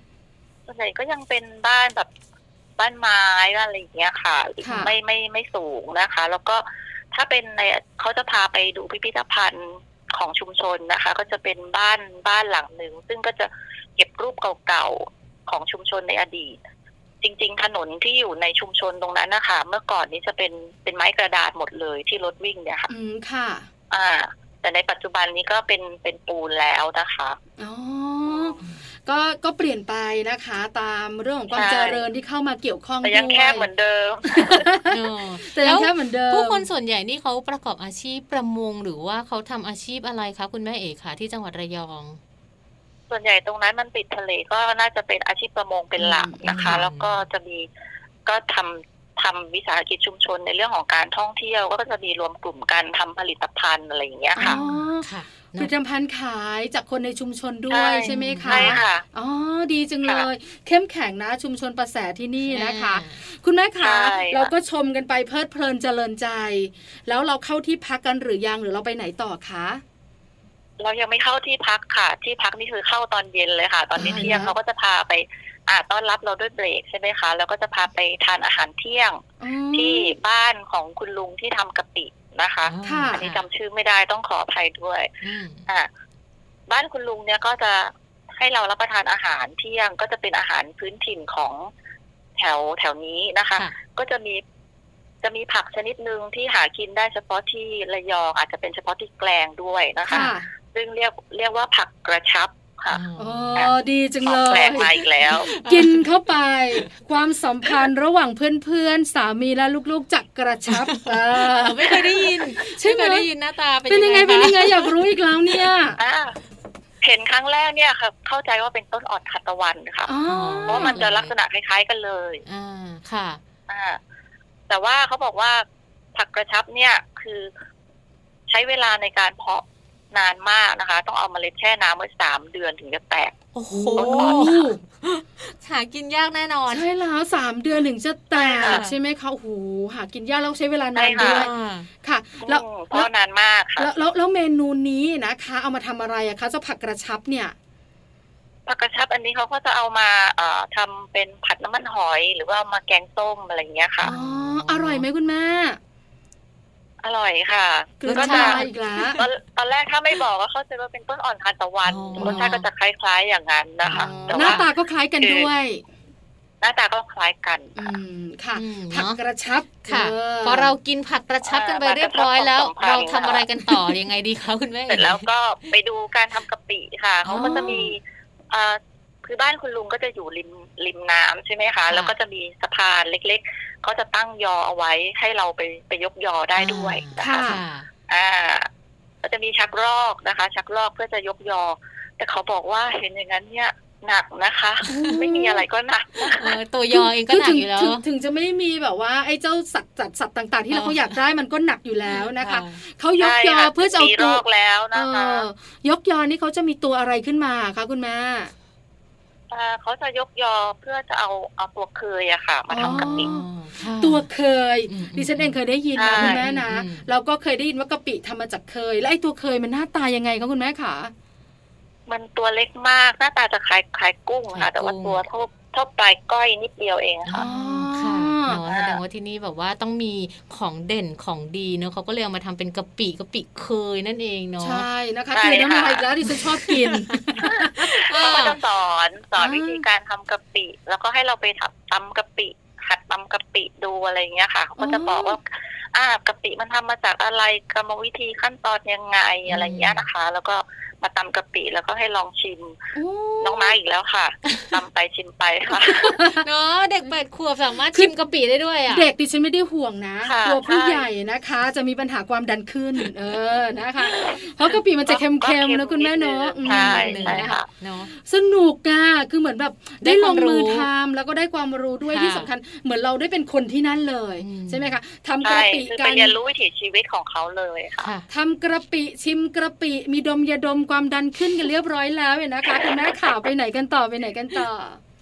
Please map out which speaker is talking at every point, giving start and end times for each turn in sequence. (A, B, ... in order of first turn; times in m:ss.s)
0:00.7-0:02.1 A
0:02.8-0:16.6 A
0:04.6-0:04.9 B
0:17.2-0:22.9 A
0:22.9-0:23.7 B
0:23.9-0:27.4 A
0:27.6-0:33.7 B
0:31.5-0:32.1 A
0:33.0-0:34.7 A
0:34.3-0:36.7 B
0:34.9-0:42.2 C
0:43.1-0:47.7 A
0:46.0-0:46.8 B
0:46.5-0:47.2 C
0:48.3-0:54.6 A
0:54.4-1:09.8 B
0:54.4-0:55.7 C
0:57.7-0:59.0 A
0:58.0-0:58.8 C
1:02.5-1:03.2 C
1:03.8-1:04.5 A
1:10.8-1:19.2 A
1:14.0-1:14.5 B
1:14.0-1:14.3 C
1:19.4-1:20.2 B
1:19.7-1:25.1 A
1:22.7-1:23.4 C
1:22.8-1:23.2 B
1:25.2-1:25.7 C
1:26.7-1:31.7 A
1:32.4-1:34.4 A
1:35.2-1:43.0 A
1:40.1-1:40.5 B
1:40.1-1:40.3 C
1:42.9-1:43.7 C
1:43.2-1:45.0 B
1:43.6-1:45.5 A
1:44.3-1:46.1 C
1:45.5-1:53.3 B
1:50.7-1:54.9 C
1:53.9-1:56.0 B
1:56.0-1:56.4 A
1:57.0-2:00.1 A
2:00.1-2:01.0 B
2:00.3-2:01.3 C
2:00.7-2:02.4 A
2:02.5-2:03.4 C
2:03.7-2:04.0 A
2:04.7-2:07.5 A
2:08.5-2:13.4 A
2:13.5-2:16.9 C
2:13.7-2:14.8 B
2:14.0-2:14.6 A
2:16.7-2:23.1 B
2:18.4-2:18.8 A
2:18.6-2:19.0 C
2:21.0-2:21.5 A
2:21.2-2:21.9 C
2:22.4-2:23.9 A
2:23.8-2:27.6 B
2:28.7-2:34.1 A
2:34.0-2:35.1 C
2:34.0-2:35.8 B
2:37.0-2:44.7 A
2:38.0-2:39.2 B
2:38.1-2:39.3 C
2:41.9-2:42.7 C
2:42.2-2:42.5 B
2:43.8-2:44.7 C
2:43.9-2:45.8 B
2:45.2-2:45.5 A
2:46.6-2:47.9 A
2:47.8-2:50.7 B
2:48.5-2:49.2 C
2:49.8-2:55.8 C
2:51.4-2:53.5 A
2:54.9-3:07.5 A
2:57.2-2:57.9 C
2:57.3-2:57.8 B
3:01.9-3:02.2 C
3:06.6-3:07.9 C
3:07.2-3:07.6 B
3:08.1-3:08.7 A
3:09.2-3:16.6 A
3:14.9-3:15.6 B
3:14.9-3:15.2 C
3:16.3-3:18.0 C
3:16.9-3:28.5 B
3:20.7-3:21.2 C
3:22.1-3:22.8 C
3:23.2-3:25.5 A
3:29.5-3:33.4 A
3:32.7-3:33.5 B
3:32.8-3:34.3 C
3:34.0-3:41.1 B
3:34.9-3:35.6 C
3:36.0-3:36.5 A
3:36.2-3:37.1 C
3:42.1-3:47.5 A
3:44.5-3:45.2 C
3:47.3-3:54.9 C
3:47.4-3:48.6 B
3:48.7-3:49.0 A
3:54.6-3:58.6 B
3:55.3-3:56.0 A
3:56.3-3:58.6 C
3:58.1-4:12.8 A
3:59.4-3:59.9 B
4:04.8-4:05.4 B
4:09.5-4:10.1 C
4:13.0-4:13.8 B
4:13.4-4:16.2 A
4:15.7-4:16.5 B
4:16.4-4:19.1 C
4:18.9-4:36.4 B
4:20.3-4:21.1 A
4:25.1-4:27.7 A
4:26.6-4:28.1 C
4:30.0-4:30.9 C
4:32.1-4:32.5 C
4:34.4-4:35.0 C
4:35.4-4:38.1 A
4:38.0-4:38.3 C
4:38.3-4:45.0 B